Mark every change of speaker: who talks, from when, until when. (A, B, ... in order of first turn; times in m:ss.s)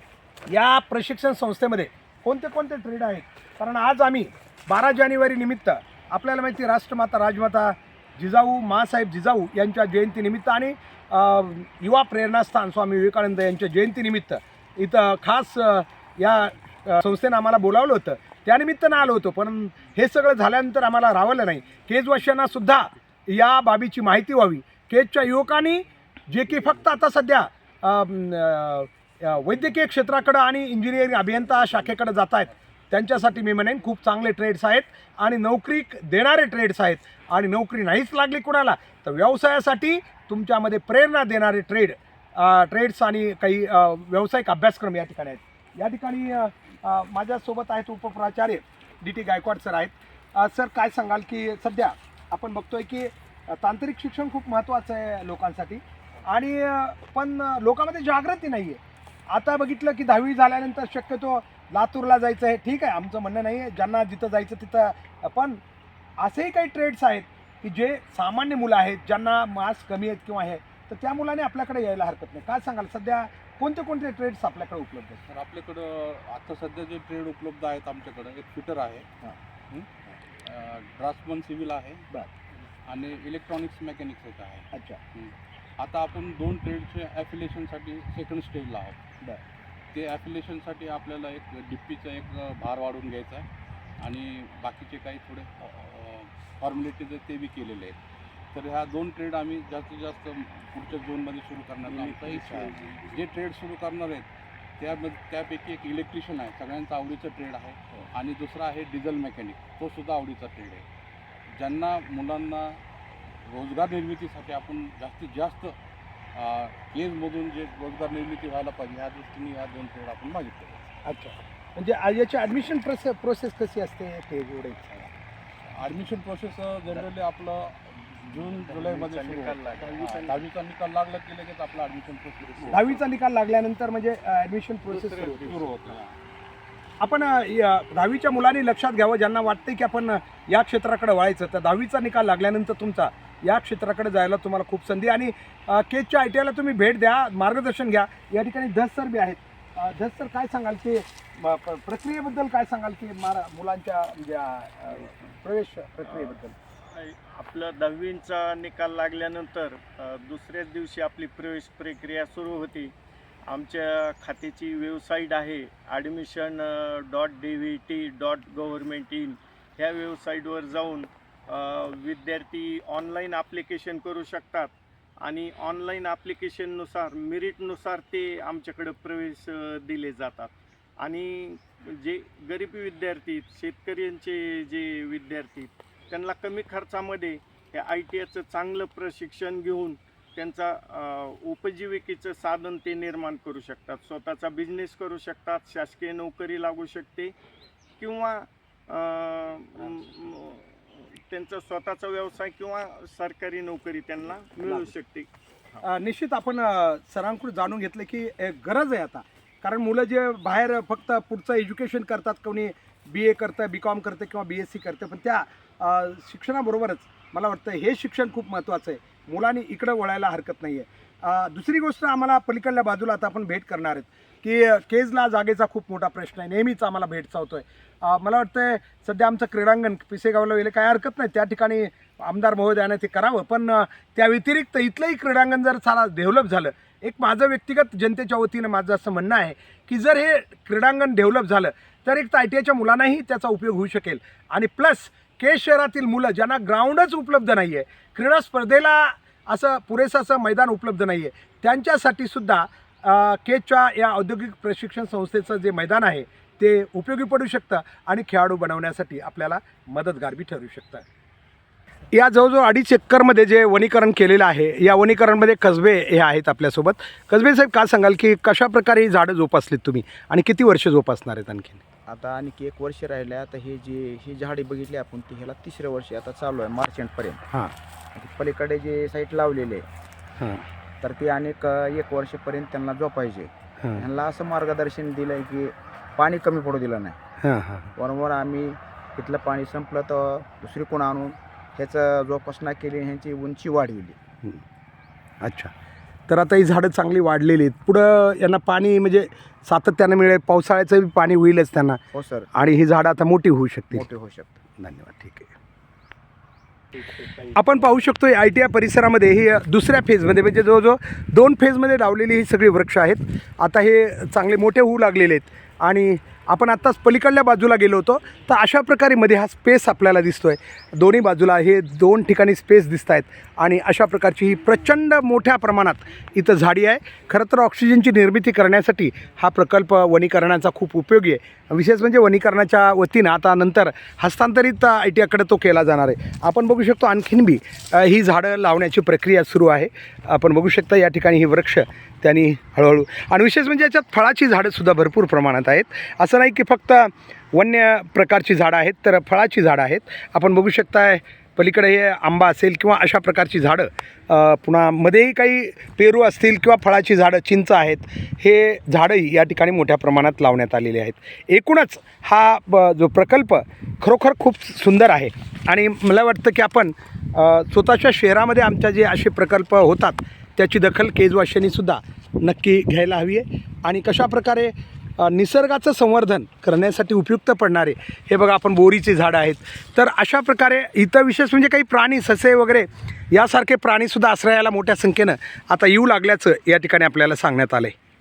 0:00.5-1:05.6 A
1:06.2-1:15.2 A
1:15.3-1:19.1 B
1:20.4-1:22.0 B
1:22.8-1:29.0 B
1:24.7-1:25.0 A
1:29.9-1:33.5 B
1:34.0-1:38.0 B
1:38.5-1:50.8 B
1:51.5-1:55.8 B
1:56.3-2:01.0 B
2:01.0-2:05.1 A
2:05.7-2:13.0 B
2:08.4-2:10.4 C
2:12.7-2:15.5 A
2:14.9-2:16.0 C
2:15.4-2:16.2 B
2:17.0-2:36.6 A
2:36.0-2:36.4 C
2:36.9-2:42.9 C
2:43.5-2:54.7 C
2:55.2-3:17.3 C
3:18.0-3:25.3 C
3:25.8-4:21.0 A
4:22.1-4:31.8 A
4:32.1-4:37.4 D
4:38.1-4:39.8 D
4:40.4-4:40.6 A
4:41.0-4:47.2 D
4:47.4-4:47.9 A
4:48.0-4:54.2 D
4:55.4-4:55.7 A
4:56.3-5:02.0 A
5:02.1-5:02.5 D
5:02.5-5:04.1 A
5:03.9-5:04.6 D
5:04.8-5:05.5 A
5:07.5-6:27.9 A